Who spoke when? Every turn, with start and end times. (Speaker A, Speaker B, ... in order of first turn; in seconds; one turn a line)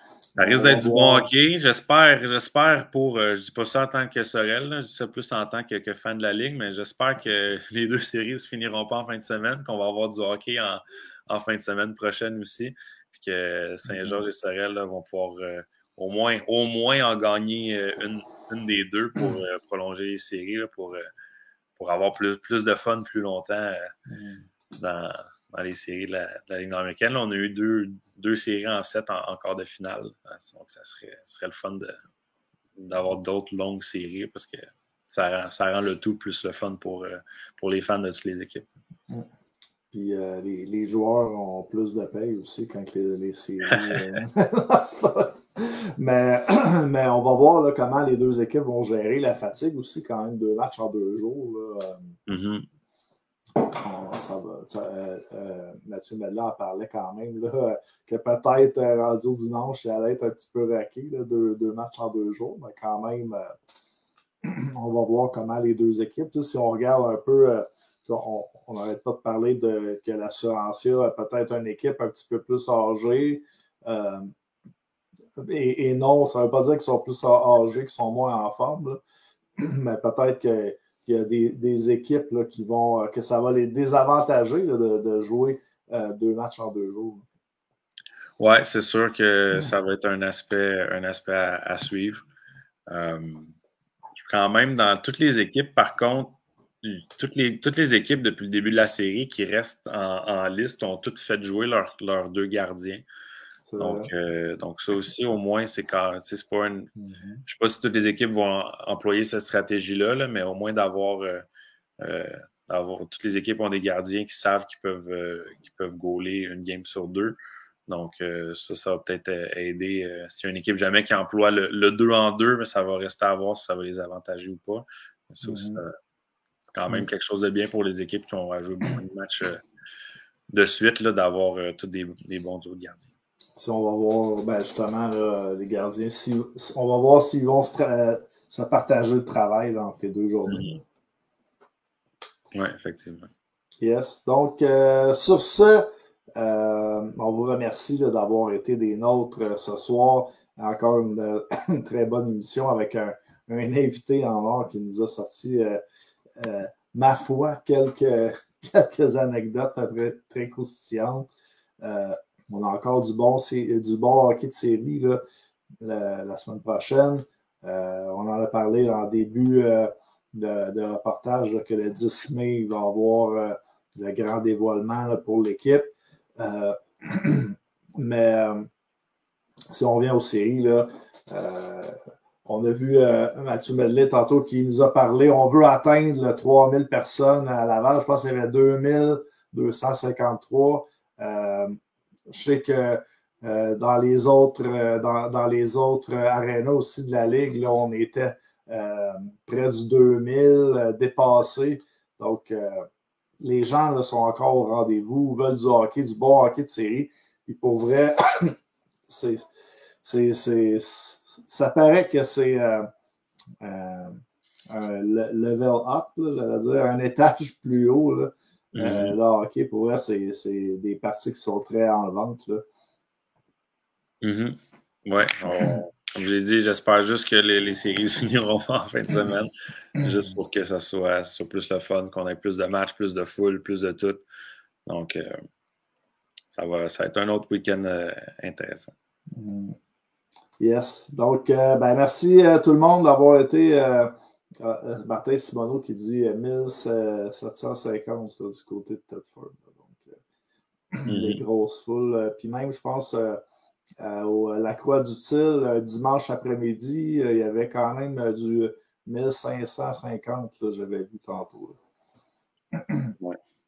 Speaker A: 0.4-1.3
Speaker B: 0.4-21.1
Speaker A: 13.9-14.2
Speaker B: 21.8-23.9
Speaker A: 24.1-24.5
Speaker B: 24.7-31.9
Speaker B: 32.8-38.7
Speaker A: 39.9-52.2
Speaker B: 43.7-44.0
Speaker B: 52.3-52.7
Speaker A: 53.5-63.5
Speaker A: 64.4-74.3
Speaker A: 75.4-79.0
Speaker A: 79.6-87.2
Speaker B: 88.4-92.2
Speaker B: 92.9-93.5
Speaker B: 94.2-103.0
Speaker A: 103.7-104.1
Speaker B: 103.8-106.9
Speaker A: 107.0-107.4
Speaker B: 107.5-111.5
Speaker B: 112.0-117.4
Speaker B: 117.9-125.9
Speaker A: 125.4-125.8
Speaker B: 126.7-129.6
Speaker B: 130.5-133.1
Speaker A: 133.6-140.7
Speaker B: 140.5-140.8
Speaker B: 142.5-143.3
Speaker A: 143.8-155.8
Speaker A: 156.4-161.3
Speaker A: 161.8-165.2
Speaker A: 165.8-178.7
Speaker A: 179.7-202.9
Speaker A: 203.4-208.6
Speaker A: 209.1-209.5
Speaker A: 210.0-212.9
Speaker A: 213.6-222.7
Speaker B: 218.8-219.2
Speaker B: 224.2-234.2
Speaker B: 234.9-235.4
Speaker B: 236.5-238.9
Speaker A: 239.3-239.8
Speaker A: 240.6-250.2
Speaker A: 250.9-253.4
Speaker B: 251.1-251.4
Speaker A: 254.0-261.8
Speaker A: 262.7-263.1